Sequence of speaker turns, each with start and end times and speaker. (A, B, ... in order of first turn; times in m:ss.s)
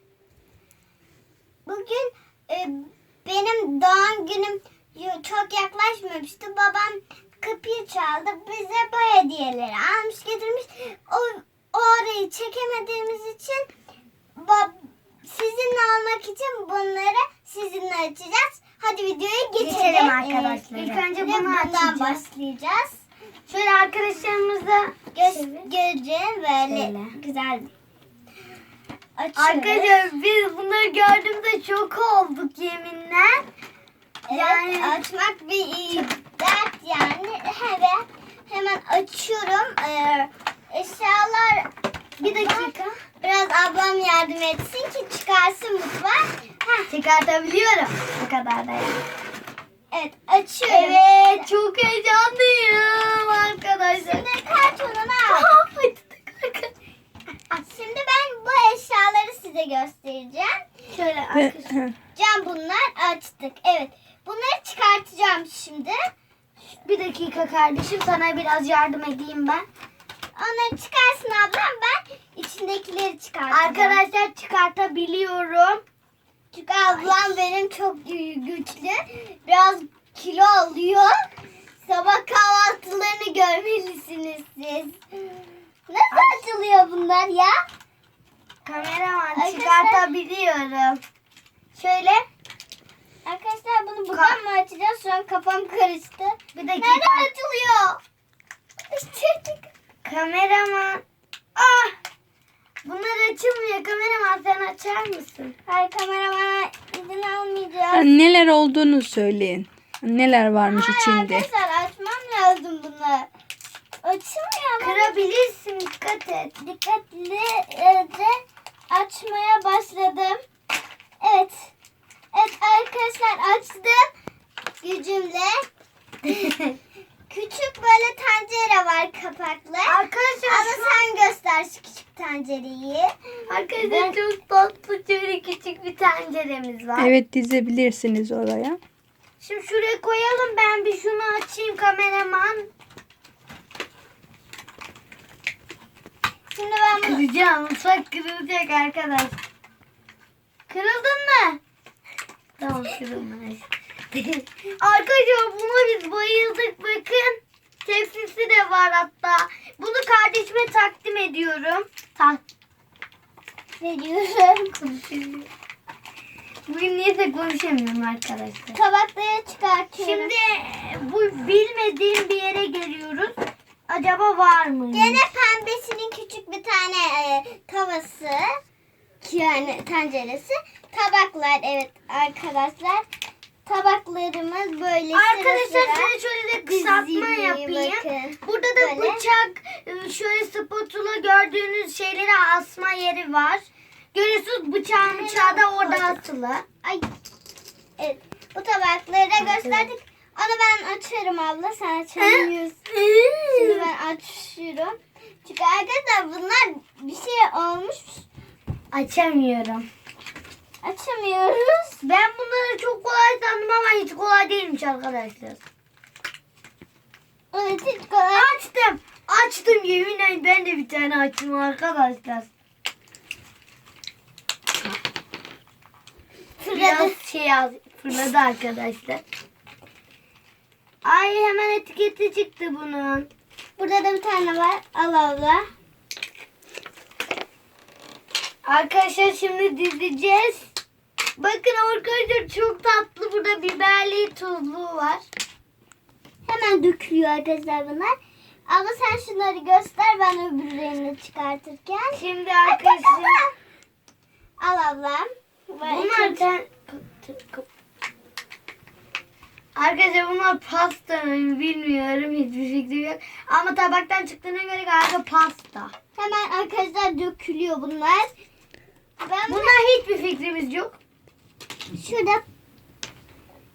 0:01.7-0:13.7 A
0:14.4-0:23.0 A
0:19.6-0:22.2 B
0:23.5-0:25.7 B
0:25.1-0:27.7 A
0:26.7-0:27.1 B
0:29.2-0:30.1 A
0:29.4-0:33.4 B
0:34.3-0:46.9 A
0:34.3-0:35.0 B
0:42.2-0:43.0 B
0:46.9-0:49.0 B
0:49.9-0:51.5 A
0:50.7-0:54.3 B
0:54.0-0:55.5 A
0:55.3-0:56.7 B
0:57.5-1:00.6 A
1:00.9-1:01.8 B
1:01.3-1:02.0 C
1:02.2-1:06.0 A
1:06.7-1:09.6 B
1:10.4-1:14.0 A
1:13.5-1:15.8 B
1:16.5-1:21.2 A
1:21.9-1:27.6 A
1:26.1-1:26.4 B
1:28.6-1:31.0 B
1:29.3-1:30.1 A
1:31.8-1:32.3 B
1:33.2-1:38.0 A
1:34.1-1:34.4 B
1:36.6-1:37.3 B
1:38.9-1:39.7 A
1:40.0-1:41.0 B
1:41.6-1:41.9 B
1:42.8-1:45.5 B
1:45.7-1:48.1 A
1:47.9-1:51.5 C
1:50.7-1:53.3 A
1:54.0-1:55.2 A
1:54.8-1:56.6 B
1:56.6-2:00.4 A
2:01.2-2:01.7 A
2:02.3-2:04.1 A
2:04.8-2:05.7 A
2:06.2-2:06.8 A
2:07.3-2:13.1 A
2:09.9-2:11.0 B
2:13.5-2:17.1 B
2:13.8-2:14.2 A
2:17.0-2:18.8 C
2:19.4-2:22.7 B
2:26.5-2:27.2 A
2:26.9-2:29.4 B
2:30.7-2:31.6 B
2:32.6-2:34.3 B
2:34.8-2:42.4 B
2:43.8-2:44.8 A
2:44.8-2:45.5 B
2:46.7-2:48.8 B
2:48.7-2:50.3 A
2:50.0-2:55.2 B
2:54.9-2:58.6 A
2:59.2-3:03.1 A
3:03.7-3:06.1 A
3:05.1-3:16.6 B
3:06.7-3:09.2 A
3:15.0-3:16.2 A
3:18.0-3:22.8 A
3:19.4-3:19.9 B
3:22.2-3:23.9 B
3:23.5-3:28.3 A
3:28.9-3:29.9 B
3:30.8-3:32.0 A
3:32.0-3:35.6 B
3:37.5-3:38.6 A
3:38.3-3:42.5 B
3:46.6-3:47.2 A
3:46.7-3:49.2 B
3:51.0-3:53.3 B
3:53.8-3:55.7 A
3:58.7-4:00.7 B
4:01.4-4:05.2 B
4:06.5-4:13.5 A
4:12.1-4:13.4 B
4:14.6-4:16.4 A
4:15.8-4:17.6 B
4:19.8-4:25.9 B
4:26.2-4:28.3 A
4:29.2-4:29.9 A
4:29.5-4:31.0 B
4:31.9-4:32.4 A